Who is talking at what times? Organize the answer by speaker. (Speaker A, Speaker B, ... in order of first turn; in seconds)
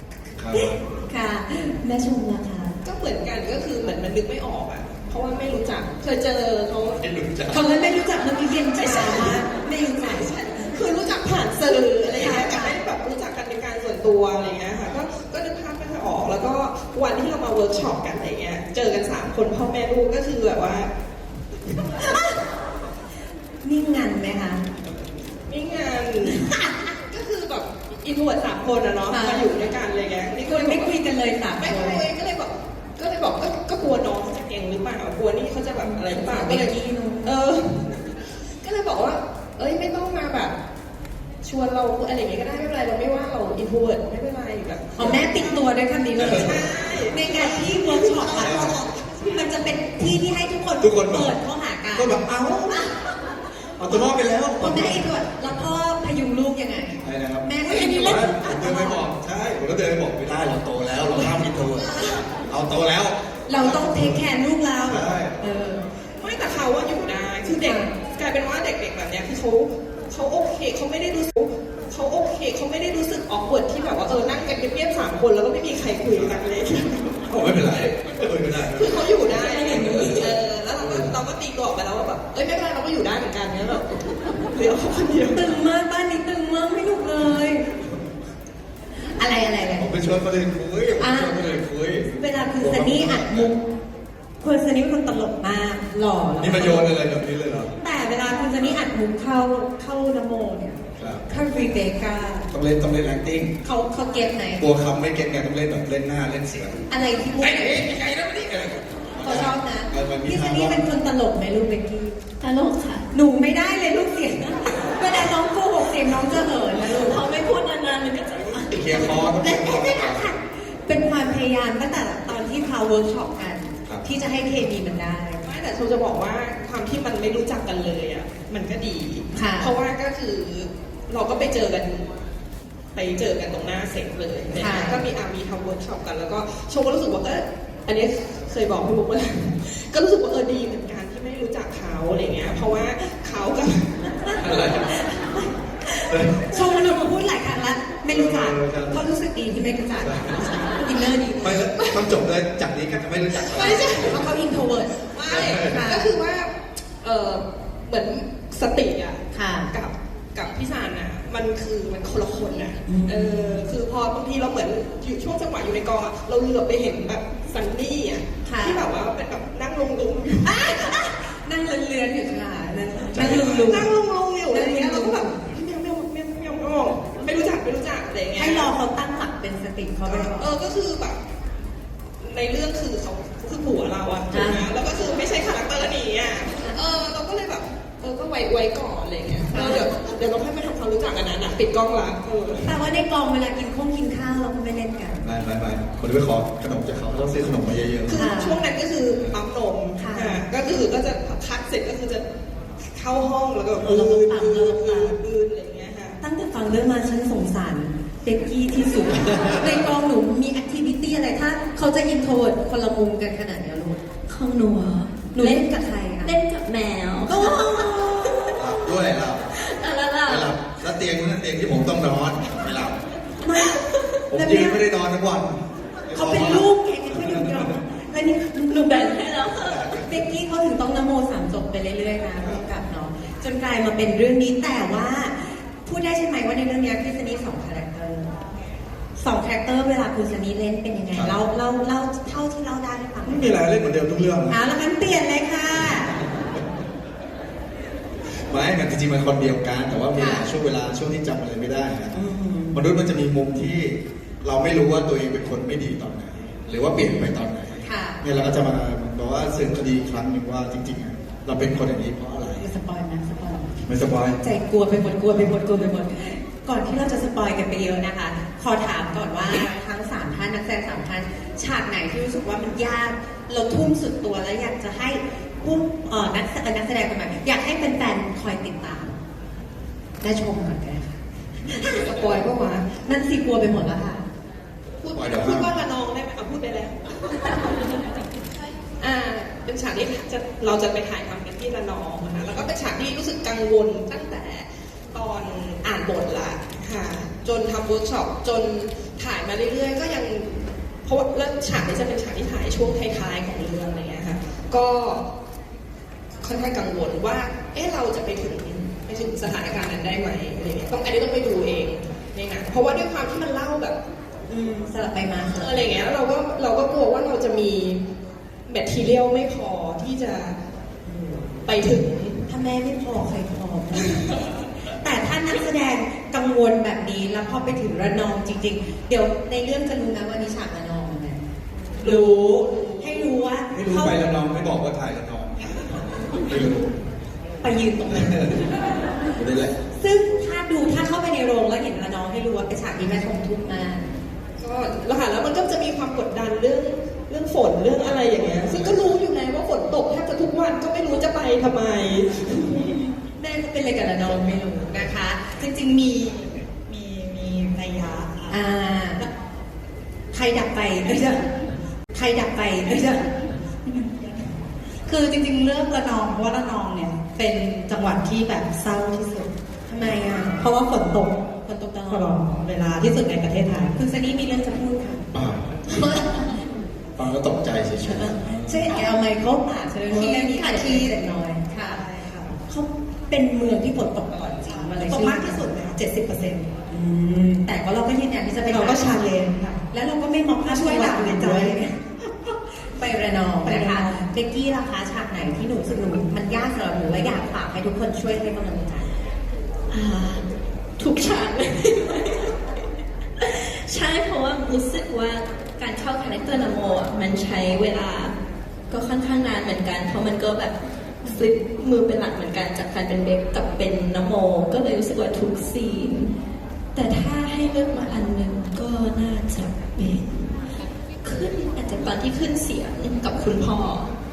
Speaker A: 0.4-0.8, 7.0-7.6, 46.2-46.5, 48.3-48.8, 50.8-51.4, 52.0-52.8, 53.8-55.1, 57.0-64.3, 64.8-65.4, 77.2-81.1, 89.8-93.5, 96.4-97.8, 101.0-101.3, 102.5-103.6, 104.6-110.9, 118.7-120.3, 144.3-145.0, 146.1-146.5, 148.1-149.0, 150.0-150.5, 151.4-154.0, 155.3-155.9, 173.1-173.8, 195.2-198.3, 218.6-219.5, 220.3-223.0, 224.3-227.7, 229.5-230.3, 241.1-241.4, 243.2-244.6, 245.9-246.5, 248.3-252.2, 252.7-262.7, 263.8-264.4, 285.1-285.7, 333.7-336.9, 338.1-338.7, 339.4-339.8, 348.7-349.1, 375.3-376.1, 377.2-378.9
Speaker B: 0.5-2.8, 7.5-10.3, 12.2-12.8, 21.9-22.4, 23.6-24.6, 26.2-26.9, 29.1-29.5, 30.4-32.0, 35.8-37.4, 45.0-53.1, 53.8-59.0, 61.1-61.4, 63.5-65.8, 67.6-67.9, 79.5-80.2, 85.3-87.7, 89.0-89.9, 91.0-91.4, 92.1-93.7, 94.4-97.0, 97.8-102.5, 103.6-104.6, 106.9-107.9, 109.2-112.2, 113.1-117.2, 119.1-125.4, 129.3-129.7, 134.6-135.0, 144.3-151.6, 153.5-156.1, 159.3-159.7, 162.9-163.7, 168.4-168.8, 170.4-173.9, 174.5-175.3, 178.4-180.5, 184.3-184.7, 189.5-189.9, 192.6-195.2, 198.1-198.6, 200.0-200.4, 203.8-205.2, 206.2-214.0, 215.3-216.3, 217.3-218.2, 223.4-223.8, 224.3-224.8, 226.1-229.3, 230.0-238.3, 239.2-243.6, 244.5-246.2, 250.1-250.5, 252.1-252.8, 256.9-257.3, 257.8-258.2, 262.6-263.7, 264.4-279.2, 280.2-282.0, 283.0-284.3, 314.5-315.8, 321.1-321.6, 322.5-331.4, 332.0-334.3, 337.6-338.7, 339.9-344.2, 352.9-355.6, 358.5-359.3, 360.3-361.5, 362.1-363.3, 369.9-370.7, 371.6-372.4, 373.9-375.3, 375.9-376.3, 378.0-382.1, 382.6-385.6, 386.9-389.3, 389.9-392.0, 392.8-399.1
Speaker C: 2.8-7.0, 8.8-20.9, 25.5-26.5, 27.1-30.9, 31.6-40.5, 41.4-45.6, 46.2-47.9, 66.2-77.2, 78.7-85.6, 125.4-132.1, 132.9-143.9, 151.8-152.1, 153.4-154.3, 155.1-170.5, 173.2-178.7, 180.1-181.2, 182.2-192.7, 198.1-202.2, 202.9-206.2, 281.8-282.9, 285.0-287.7, 289.0-305.3, 306.4-314.0, 315.5-318.0, 318.7-320.6, 321.6-322.4, 332.0-333.3, 344.6-352.9
Speaker D: 47.5-49.2, 57.9-58.2, 355.6-358.7, 363.9-364.5, 365.1-369.5, 370.6-371.4, 372.1-373.9, 380.1-382.6, 384.6-386.7, 388.6-389.8, 390.6-391.9, 393.6-394.3
Speaker E: 112.4-113.1, 116.8-119.3, 214.3-215.7, 216.2-218.9, 219.5-220.8, 223.6-224.2, 228.7-229.9, 399.9-400.4, 401.0-402.6, 403.4-408.4, 408.9-416.3, 416.9-420.7, 421.2-424.1